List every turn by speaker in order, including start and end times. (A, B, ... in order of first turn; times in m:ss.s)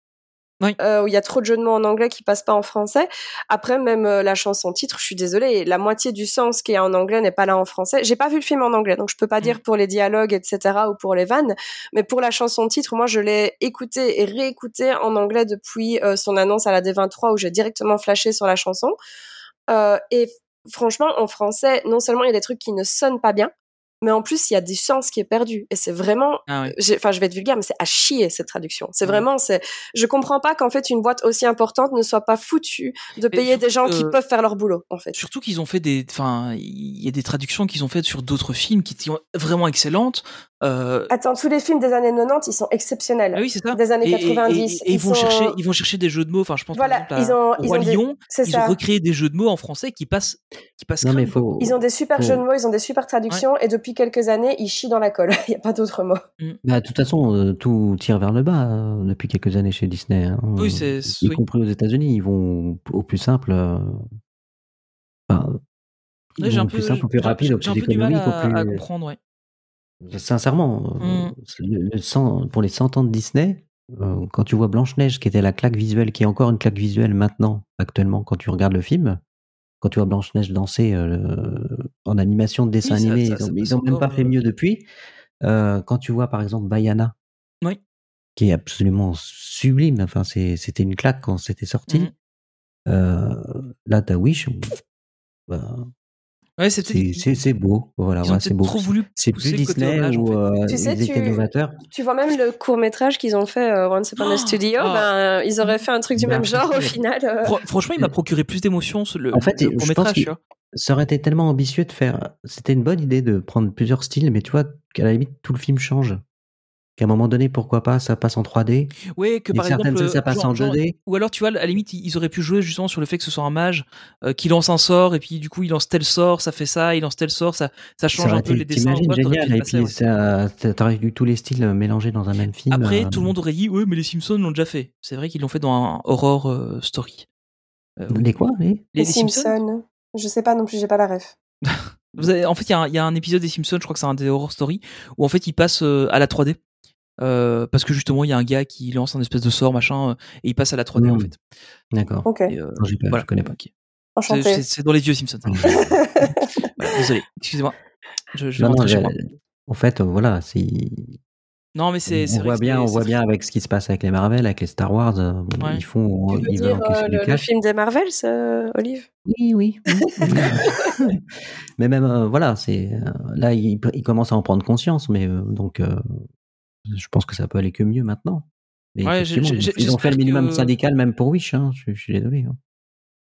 0:00.8-0:19.0 A
0:19.7-0:23.5 A
0:24.0-0:35.2 A
0:26.5-0:26.7 B
0:33.3-0:34.2 B
0:35.1-0:41.1 B
0:41.1-0:45.6 A
0:43.3-0:51.4 B
0:46.7-0:48.8 A
0:51.0-0:52.4 C
0:51.6-0:56.2 A
0:56.6-1:04.0 C
1:00.6-1:01.4 B
1:05.3-1:05.6 C
1:06.4-1:08.8 C
1:06.4-1:09.2 B
1:10.0-1:19.2 C
1:11.0-1:11.3 B
1:19.8-1:24.9 C
1:22.8-1:24.3 B
1:25.4-1:27.1 C
1:28.4-1:32.1 C
1:32.8-1:34.7 C
1:35.5-1:35.9 C
1:36.6-1:37.3 B
1:36.8-1:41.8 C
1:38.2-1:40.4 B
1:40.7-1:41.4 A
1:41.9-1:47.6 A
1:44.2-1:45.1 B
1:46.2-1:46.6 C
1:47.4-1:50.4 B
1:49.3-1:56.2 C
1:57.0-1:58.9 C
1:59.2-2:10.0 B
1:59.5-2:01.0 C
2:08.1-2:13.3 C
2:12.7-2:17.3 B
2:18.0-2:18.4 B
2:18.1-2:18.9 C
2:18.9-2:19.6 B
2:19.0-2:21.3 A
2:21.6-2:26.6 B
2:27.2-2:31.4 B
2:31.0-2:31.3 C
2:31.9-2:33.5 C
2:32.2-2:32.5 A
2:32.5-2:33.7 B
2:34.2-2:34.6 A
2:34.3-2:35.8 B
2:35.5-2:35.8 C
2:35.7-2:36.5 A
2:36.8-2:37.7 B
2:38.3-2:39.1 B
2:38.6-2:41.2 C
2:41.7-2:43.1 B
2:42.1-2:47.4 C
2:46.3-2:49.1 A
2:49.2-2:51.2 C
2:50.1-2:51.0 A
2:51.8-2:56.0 C
2:56.9-3:02.6 C
2:59.0-3:00.7 B